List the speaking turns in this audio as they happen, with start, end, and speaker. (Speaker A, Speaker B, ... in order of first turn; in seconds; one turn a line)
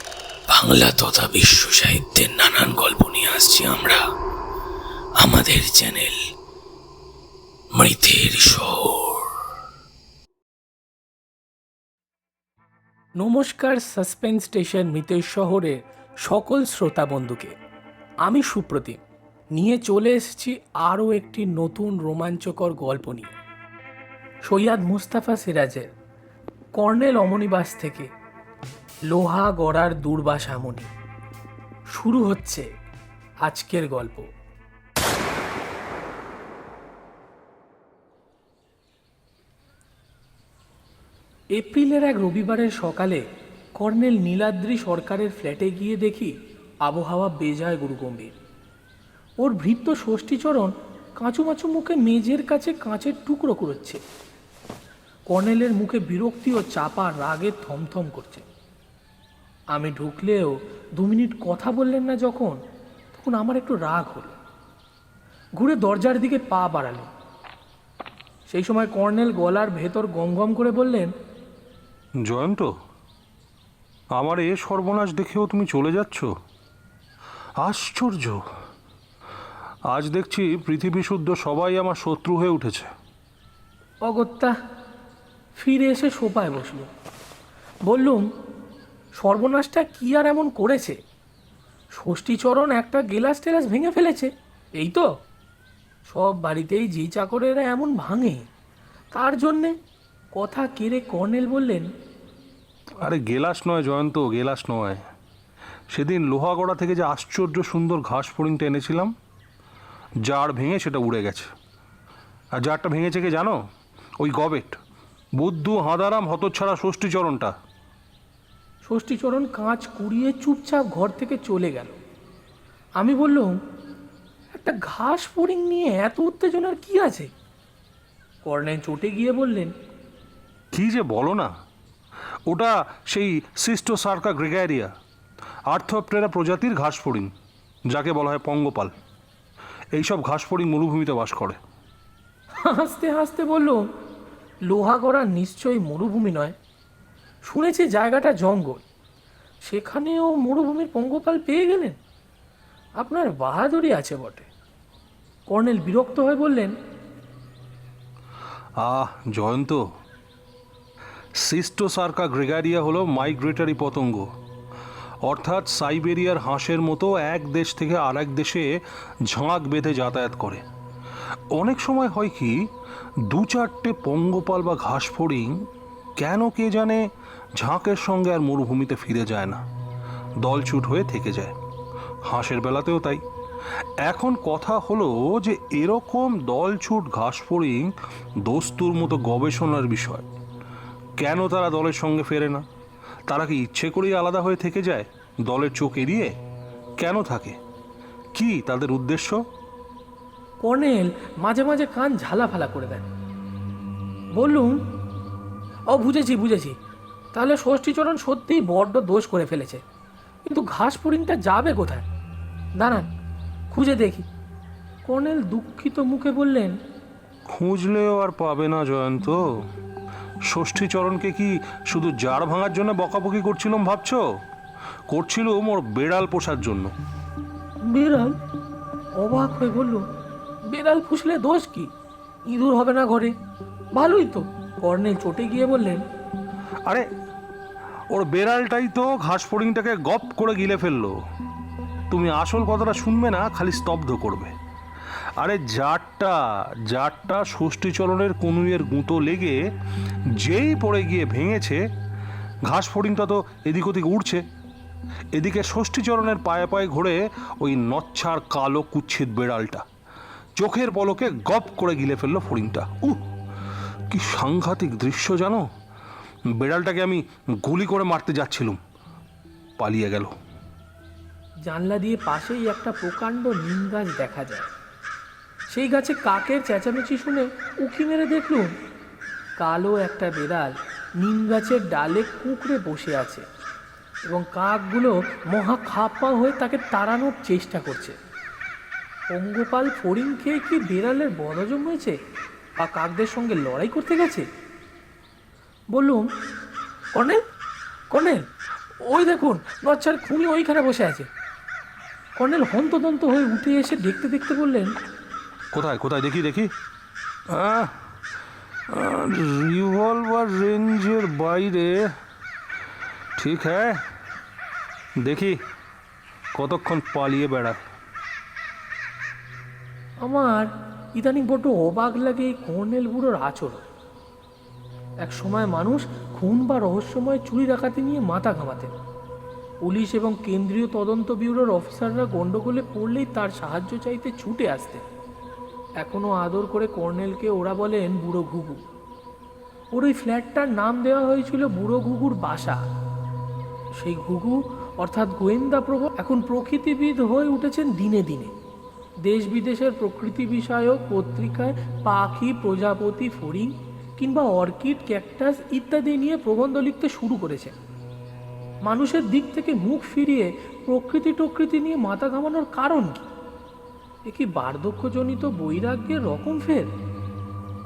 Speaker A: 0.5-4.0
Speaker A: 5.2-6.2
Speaker A: 7.7-9.2
Speaker B: 13.2-17.5
Speaker B: 18.2-19.0
Speaker B: 19.5-23.4
Speaker B: 24.5-25.9
Speaker B: 26.8-28.1
Speaker B: 29.1-30.9
Speaker B: 31.9-32.6
Speaker B: 33.4-34.3
Speaker B: 41.5-43.2
Speaker B: 43.8-46.3
Speaker B: 46.8-48.3
Speaker B: 49.4-54.0
Speaker B: 55.3-58.4
Speaker B: 59.7-62.6
Speaker B: 63.1-64.3
Speaker B: 65.6-67.1
Speaker B: 68.5-71.1
Speaker C: 72.2-72.7
Speaker C: 74.2-76.3
Speaker C: 77.6-78.4
Speaker C: 79.9-82.9
Speaker B: 84.0-84.5
Speaker B: 85.6-86.9
Speaker B: 87.9-88.2
Speaker B: 89.2-91.0
Speaker B: 91.9-95.1
Speaker B: 96.1-98.5
Speaker B: 99.1-99.8
Speaker B: 100.3-101.9
Speaker C: 103.0-105.1
Speaker C: 105.9-109.1
Speaker C: 110.2-111.5
Speaker C: 112.5-113.6
Speaker C: 114.2-114.8
Speaker C: 115.4-117.5
Speaker B: 118.8-122.0
Speaker B: 123.0-123.6
Speaker B: 124.5-127.3
Speaker B: 128.4-129.7
Speaker C: 130.7-131.5
Speaker C: 132.5-134.9
Speaker C: 135.7-137.3
Speaker C: 137.9-138.9
Speaker C: 139.9-141.6
Speaker B: 142.6-143.8
Speaker B: 144.7-146.5
Speaker B: 147.5-148.8
Speaker B: 149.6-152.0
Speaker B: 153.0-154.5
Speaker B: 155.5-156.7
Speaker C: 158.8-159.8
Speaker C: 161.4-164.3
Speaker C: 165.2-170.6
Speaker C: 171.5-172.7
Speaker C: 173.3-175.6
Speaker C: 176.2-179.6
Speaker C: 180.4-181.5
Speaker C: 182.3-183.2
Speaker C: 184.0-190.3
Speaker C: 191.2-192.6
Speaker C: 193.3-196.3
Speaker C: 197.0-197.6
Speaker C: 198.3-199.4
Speaker B: 200.6-203.1
Speaker B: 204.4-204.8
Speaker B: 205.9-206.8
Speaker B: 207.3-209.8
Speaker B: 210.4-212.1
Speaker B: 212.8-213.1
Speaker B: 213.7-214.3
Speaker B: 215.0-216.8
Speaker C: 217.5-219.4
Speaker C: 220.5-224.3
Speaker C: 225.1-226.9
Speaker B: 227.8-228.4
Speaker B: 229.2-230.0
Speaker B: 230.7-231.9
Speaker B: 232.5-233.3
Speaker B: 233.9-236.0
Speaker C: 238.1-241.2
Speaker C: 242.1-244.5
Speaker C: 245.4-249.6
Speaker C: 250.3-251.8
Speaker C: 252.7-254.4
Speaker C: 255.3-259.8
Speaker C: 260.6-263.2
Speaker C: 264.1-265.7
Speaker C: 266.6-268.8
Speaker C: 269.8-270.3
Speaker B: 271.6-274.7
Speaker B: 275.7-278.7
Speaker B: 279.6-283.4
Speaker B: 284.3-288.1
Speaker B: 289.3-292.1
Speaker B: 292.8-294.4
Speaker B: 295.9-296.3
Speaker B: 297.1-297.4
Speaker B: 298.1-298.5
Speaker B: 299.0-301.3
Speaker B: 302.4-304.9
Speaker C: 305.7-306.7
Speaker C: 307.5-308.0
Speaker C: 308.9-312.1
Speaker C: 313.4-314.0
Speaker C: 315.2-315.6
Speaker C: 316.5-317.8
Speaker B: 320.2-323.8
Speaker B: 325.2-328.9
Speaker B: 329.8-335.0
Speaker B: 336.0-338.8
Speaker B: 339.9-342.8
Speaker B: 344.0-348.5
Speaker B: 349.2-357.7
Speaker B: 358.8-363.3
Speaker B: 364.3-366.9